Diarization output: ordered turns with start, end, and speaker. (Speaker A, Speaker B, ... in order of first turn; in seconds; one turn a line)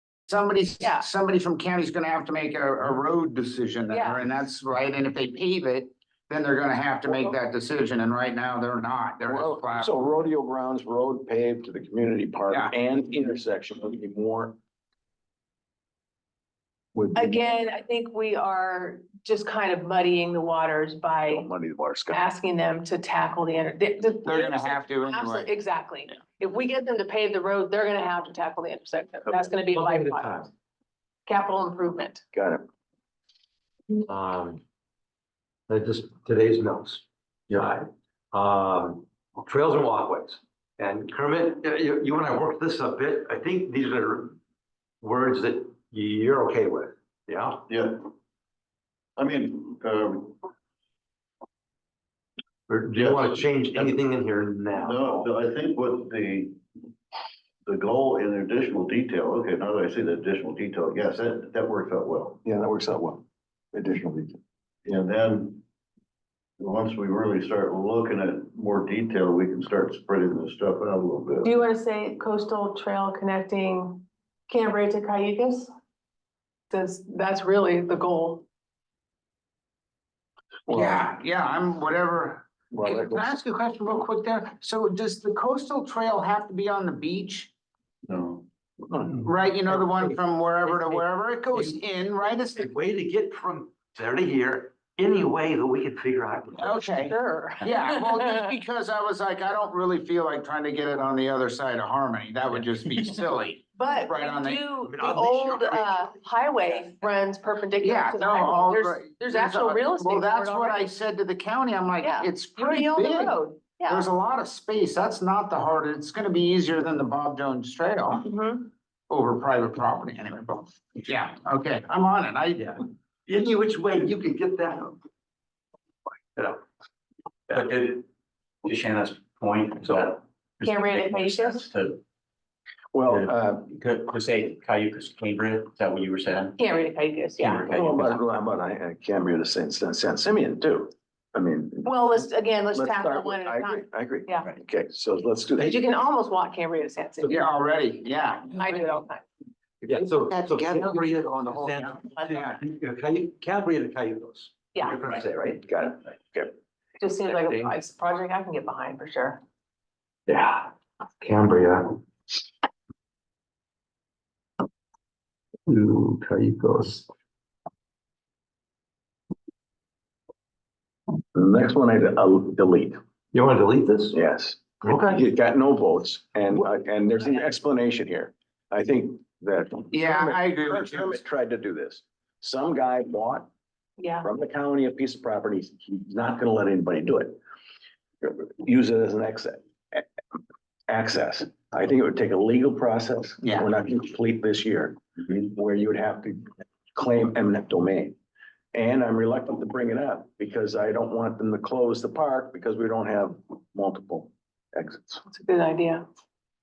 Speaker A: 0.3-10.1
Speaker B: 0.8-1.1
Speaker B: 3.9-4.2
Speaker C: 9.3-14.6
Speaker C: 16.9-17.4
Speaker B: 17.1-21.5
Speaker C: 21.3-22.2
Speaker B: 22.1-30.5
Speaker A: 24.2-25.5
Speaker D: 29.7-30.5
Speaker B: 31.3-32.2
Speaker C: 32.3-32.6
Speaker D: 34.1-34.6
Speaker D: 35.7-37.0
Speaker D: 37.6-44.4
Speaker D: 45.0-47.6
Speaker E: 47.7-48.1
Speaker E: 49.2-50.4
Speaker D: 52.7-55.3
Speaker E: 52.9-54.0
Speaker E: 54.7-56.6
Speaker E: 57.6-62.4
Speaker C: 62.4-64.4
Speaker E: 64.8-65.6
Speaker E: 66.6-71.5
Speaker B: 71.4-75.7
Speaker B: 76.7-78.5
Speaker C: 80.7-81.0
Speaker A: 80.7-87.5
Speaker C: 82.7-83.3
Speaker E: 88.1-88.5
Speaker C: 88.8-89.2
Speaker D: 89.1-91.8
Speaker A: 89.2-92.7
Speaker D: 92.6-96.8
Speaker A: 96.6-104.6
Speaker B: 96.7-98.5
Speaker B: 103.8-110.9
Speaker D: 104.8-106.1
Speaker A: 107.8-118.3
Speaker B: 112.0-114.1
Speaker B: 118.2-118.7
Speaker A: 119.1-122.8
Speaker D: 122.6-125.0
Speaker D: 126.4-126.6
Speaker F: 127.5-128.1
Speaker F: 128.6-132.0
Speaker B: 130.6-131.7
Speaker C: 132.9-133.6
Speaker F: 133.1-136.6
Speaker B: 136.6-137.7
Speaker F: 137.4-138.2
Speaker C: 137.7-145.8
Speaker B: 141.8-144.5
Speaker B: 145.6-147.6
Speaker A: 147.3-149.0
Speaker B: 148.5-149.2
Speaker A: 149.8-152.6
Speaker D: 149.9-155.6
Speaker C: 155.7-156.5
Speaker B: 157.0-159.4
Speaker D: 157.3-157.8
Speaker D: 160.3-162.0
Speaker D: 165.7-167.1
Speaker C: 171.3-173.0
Speaker D: 173.3-174.2
Speaker C: 174.1-183.5
Speaker D: 174.8-175.2
Speaker A: 179.9-181.2
Speaker B: 184.0-184.3
Speaker C: 184.2-187.4
Speaker C: 188.2-190.1
Speaker C: 190.9-198.2
Speaker A: 193.4-193.7
Speaker C: 198.7-205.2
Speaker B: 205.3-206.1